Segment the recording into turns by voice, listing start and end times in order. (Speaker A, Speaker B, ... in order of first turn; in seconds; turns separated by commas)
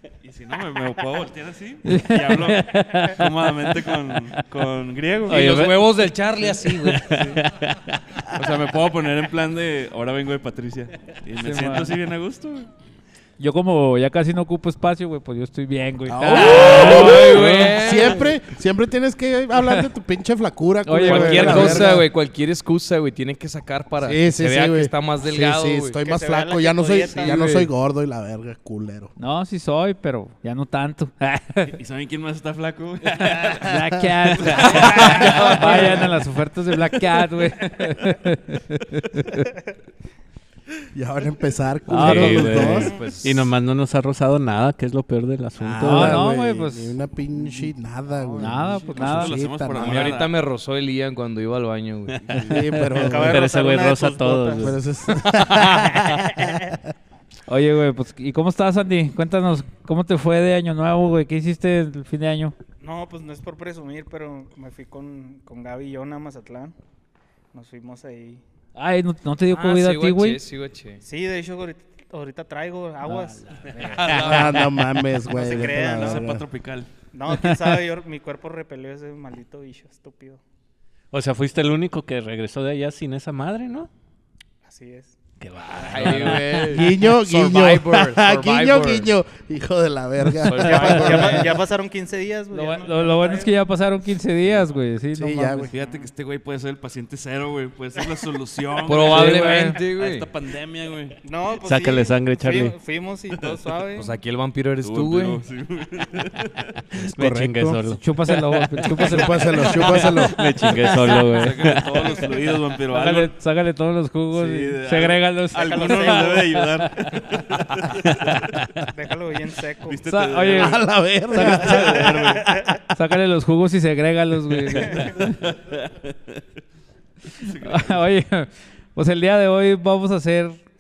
Speaker A: 0.2-5.6, Speaker B: 1.8-3.5, Speaker C: 5.3-7.2, Speaker D: 5.3-8.2, Speaker A: 8.3-12.7, Speaker B: 11.4-11.9, Speaker B: 13.4-17.8, Speaker E: 16.1-22.1, Speaker C: 16.3-18.3, Speaker B: 20.9-22.0, Speaker C: 21.0-26.0, Speaker E: 24.0-29.1, Speaker F: 26.0-27.5, Speaker B: 29.2-31.8, Speaker A: 31.7-33.7, Speaker B: 33.2-39.5, Speaker A: 34.5-36.1, Speaker C: 34.6-35.8, Speaker F: 34.8-35.5, Speaker E: 40.9-42.9, Speaker B: 41.9-42.9, Speaker D: 41.9-46.2, Speaker C: 42.8-43.5, Speaker E: 45.6-50.1, Speaker B: 45.8-46.9, Speaker D: 48.2-48.7, Speaker B: 48.4-49.3, Speaker A: 48.6-50.3, Speaker C: 49.7-52.1, Speaker D: 52.1-52.6, Speaker A: 52.2-52.7, Speaker E: 52.4-53.5, Speaker F: 52.8-54.7, Speaker D: 53.2-54.8, Speaker E: 54.6-56.0, Speaker C: 55.3-55.9, Speaker F: 55.7-56.6, Speaker B: 57.5-62.5, Speaker F: 62.8-66.8, Speaker F: 67.5-68.4, Speaker B: 68.7-70.4, Speaker C: 69.5-71.0, Speaker F: 71.0-74.0, Speaker A: 73.7-74.8, Speaker D: 73.8-74.2, Speaker E: 74.1-76.4, Speaker F: 75.2-76.2, Speaker A: 75.5-76.9, Speaker F: 77.1-80.4, Speaker D: 81.1-83.9, Speaker F: 84.6-85.2, Speaker D: 85.4-86.8, Speaker C: 85.8-89.1, Speaker E: 86.7-91.5, Speaker C: 90.4-91.5, Speaker F: 90.6-93.5, Speaker B: 92.5-95.7, Speaker E: 95.1-95.7, Speaker A: 95.7-101.2, Speaker F: 95.8-96.0, Speaker C: 98.8-100.3, Speaker B: 99.0-99.8, Speaker F: 101.2-104.1, Speaker D: 101.6-102.8, Speaker A: 103.3-103.6, Speaker C: 104.0-105.4, Speaker A: 104.8-106.8, Speaker E: 106.9-107.8, Speaker D: 107.0-108.0, Speaker B: 107.9-110.0, Speaker E: 108.8-110.4, Speaker A: 109.5-113.3, Speaker D: 109.9-112.2, Speaker B: 112.9-117.2, Speaker A: 114.3-118.6, Speaker F: 115.6-116.6, Speaker F: 118.9-120.0, Speaker A: 119.8-122.5, Speaker B: 120.0-125.6, Speaker E: 120.5-122.2, Speaker F: 122.3-122.8, Speaker A: 124.9-125.3, Speaker A: 127.4-128.0, Speaker B: 127.4-130.6